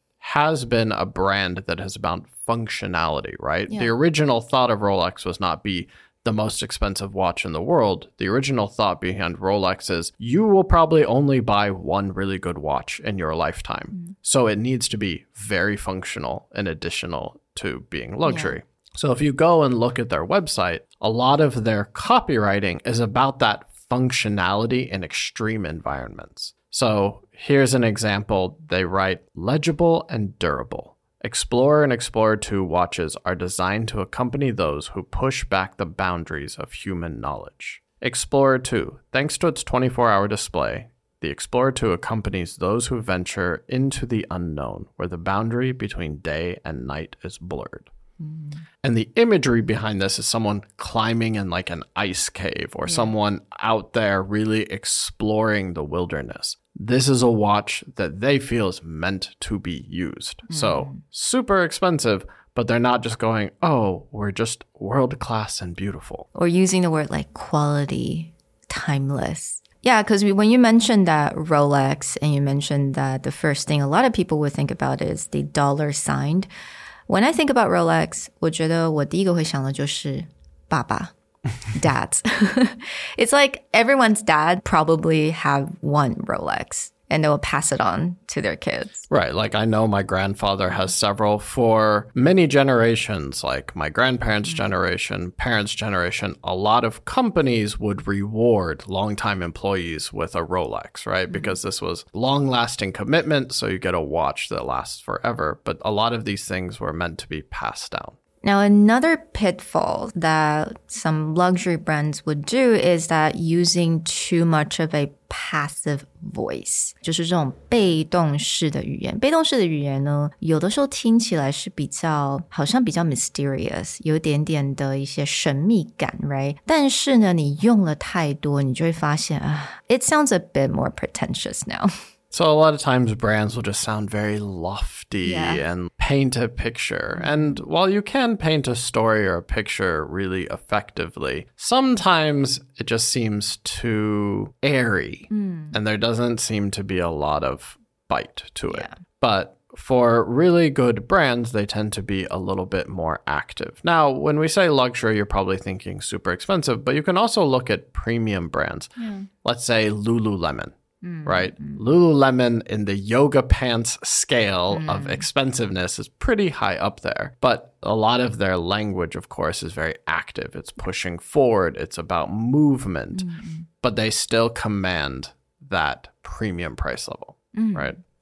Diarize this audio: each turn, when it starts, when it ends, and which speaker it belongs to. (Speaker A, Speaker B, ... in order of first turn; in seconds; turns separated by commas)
Speaker A: 0.2-47.9, Speaker B: 18.2-18.6, Speaker B: 48.2-48.6, Speaker A: 48.8-66.2, Speaker B: 52.8-53.1, Speaker B: 60.5-61.0, Speaker B: 66.3-76.5, Speaker B: 77.1-81.1, Speaker B: 81.7-89.0, Speaker A: 89.1-108.2, Speaker B: 101.3-101.6, Speaker B: 108.4-131.9, Speaker A: 132.3-173.3, Speaker B: 135.2-135.6, Speaker B: 137.2-137.6, Speaker B: 145.3-145.8, Speaker B: 148.7-148.9, Speaker B: 159.0-159.3, Speaker B: 161.0-161.8, Speaker B: 164.7-165.3, Speaker B: 173.1-173.7, Speaker A: 173.8-177.9, Speaker B: 177.5-177.9